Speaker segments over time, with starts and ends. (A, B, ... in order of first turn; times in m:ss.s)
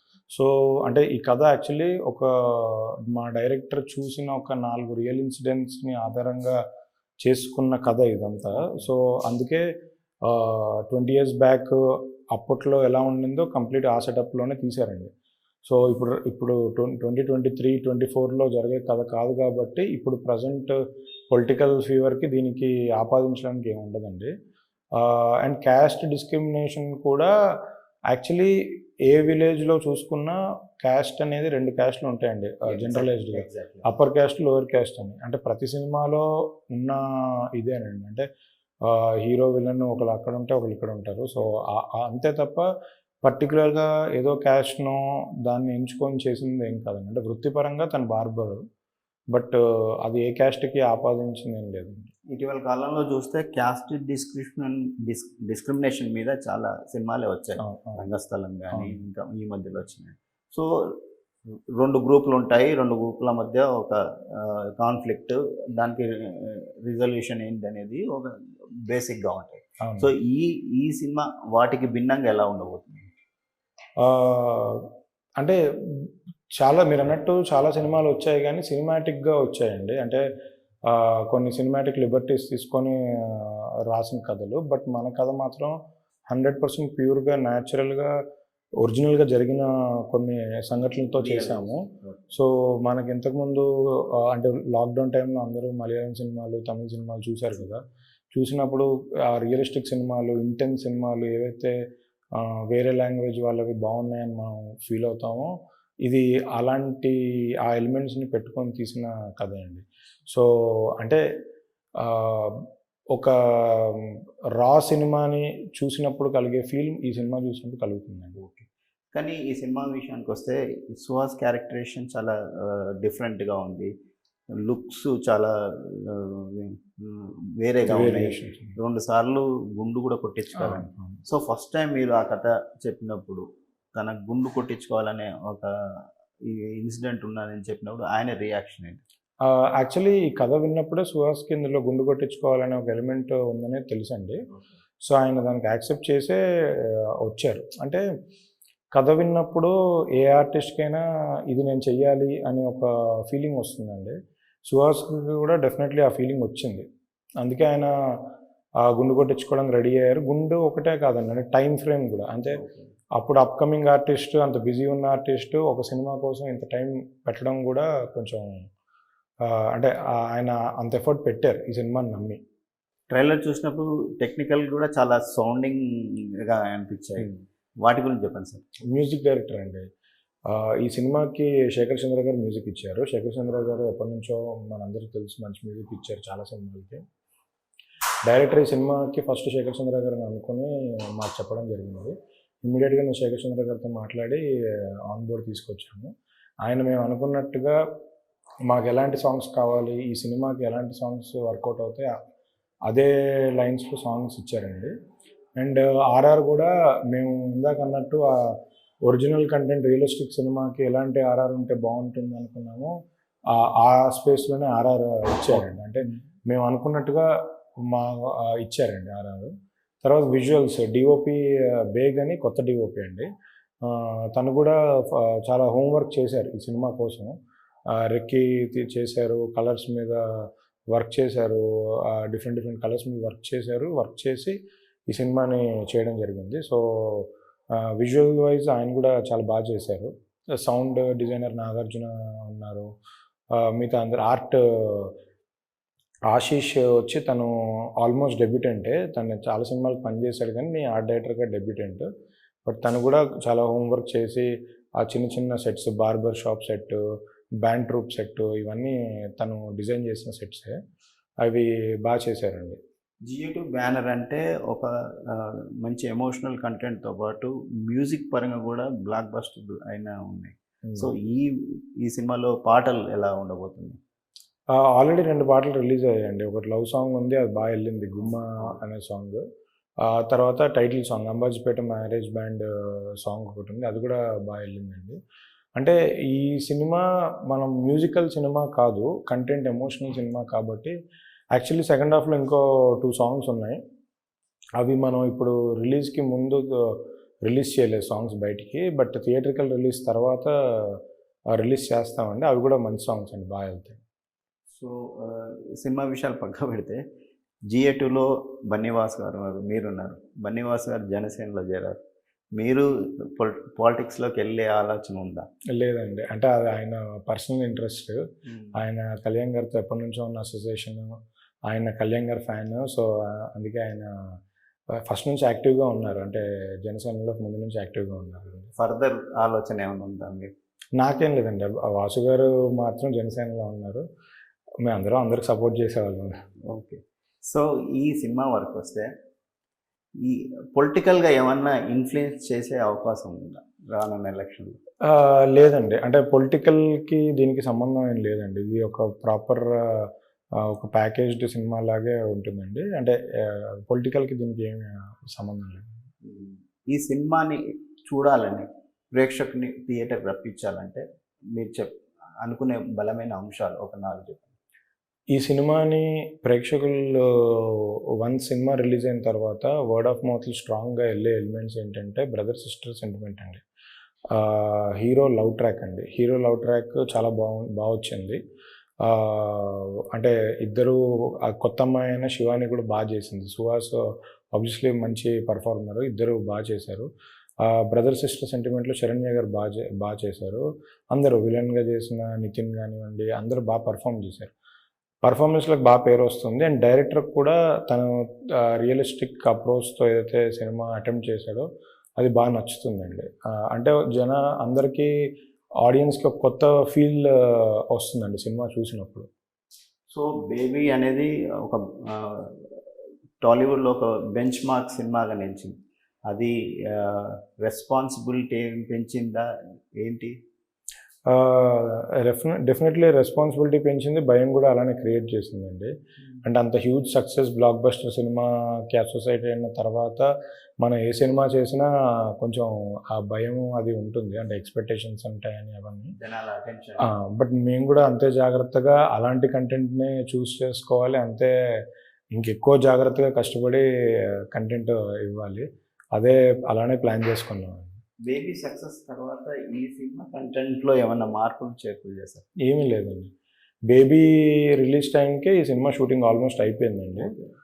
0:00.3-0:06.6 A
0:07.2-0:09.6 A
0:08.6-0:08.9 B
0:10.3-0:11.8 A
0:12.3-0:15.1 A
0:15.7-0:20.8 A
0:21.3-0:24.3 A
0:25.0-0:27.3 A
0:28.1-0:28.5 A
0:29.1-0:37.0 A
0:32.7-0:33.9 B
0:37.6-0:38.3 A
0:38.8-0:42.7 A
0:43.2-0:48.6 A
0:49.3-0:52.1 A
0:52.3-1:01.0 B
0:57.6-0:58.0 A
1:01.7-1:08.3 B
1:08.9-1:13.1 B
1:09.8-1:10.1 A
1:14.0-1:14.8 A
1:16.6-1:20.2 A
1:20.9-1:25.8 A
1:26.3-1:28.1 A
1:28.8-1:37.8 A
1:30.9-1:32.3 B
1:38.3-1:41.8 A
1:42.4-1:45.5 A
1:46.1-1:50.5 A
1:52.0-1:58.4 A
1:58.4-2:03.9 B
2:04.6-2:19.0 B
2:07.9-2:08.8 A
2:10.6-2:11.2 A
2:19.4-2:24.4 A
2:25.0-2:28.0 A
2:28.9-2:34.2 A
2:34.7-2:36.9 A
2:37.4-2:37.9 A
2:38.8-2:42.6 A
2:42.5-2:42.9 B
2:43.2-2:48.5 A
2:49.5-2:52.4 A
2:53.1-2:57.3 B
2:57.8-2:58.6 B
2:58.9-2:59.8 A
3:00.5-3:07.0 A
3:08.3-3:14.4 A
3:15.1-3:16.1 A
3:16.6-3:17.8 A
3:18.7-3:22.1 A
3:22.9-3:24.9 A
3:25.6-3:28.6 A
3:29.1-3:32.9 A
3:33.5-3:37.3 A
3:35.6-3:36.2 B
3:37.8-3:39.5 A
3:40.0-3:41.4 A
3:41.9-3:43.3 A
3:43.8-3:47.3 A
3:47.9-3:54.6 A
3:55.1-4:00.1 A
4:00.6-4:02.9 A
4:03.6-4:05.1 A
4:06.3-4:12.1 A
4:12.6-4:14.5 A
4:15.0-4:17.0 A
4:17.6-4:20.8 A
4:21.4-4:22.8 A
4:23.3-4:34.0 B
4:34.8-4:39.4 A
4:38.2-4:38.8 B
4:40.0-4:45.2 A
4:45.8-4:50.9 A
4:51.6-4:53.8 A
4:54.8-5:01.0 A
5:01.5-5:04.0 A
5:04.7-5:07.0 B
5:07.7-5:12.0 B
5:12.6-5:15.5 B
5:15.8-5:18.2 A
5:18.8-5:21.1 A
5:21.7-5:24.1 A
5:25.1-5:28.7 A
5:28.8-5:30.5 B
5:31.0-5:34.0 A
5:34.8-5:36.4 A
5:36.7-5:39.1 B
5:40.2-5:44.8 B
5:45.1-5:50.1 A
5:50.6-5:55.9 A
5:56.2-6:04.6 B
6:05.3-6:13.6 A
6:14.3-6:18.4 A
6:19.0-6:27.1 A
6:27.6-6:34.5 A
6:35.2-6:41.7 A
6:42.2-6:45.1 A
6:45.8-6:49.3 A
6:50.1-6:52.7 B
6:53.4-6:55.8 B
6:56.3-7:00.4 B
7:01.3-7:05.9 A
7:06.4-7:10.3 A
7:10.8-7:11.9 A
7:12.4-7:16.1 A
7:16.2-7:17.1 B
7:17.0-7:21.5 A
7:22.4-7:23.8 A
7:24.5-7:28.0 A
7:28.3-7:32.4 B
7:32.6-7:33.3 A
7:33.9-7:37.3 A
7:37.2-7:37.5 B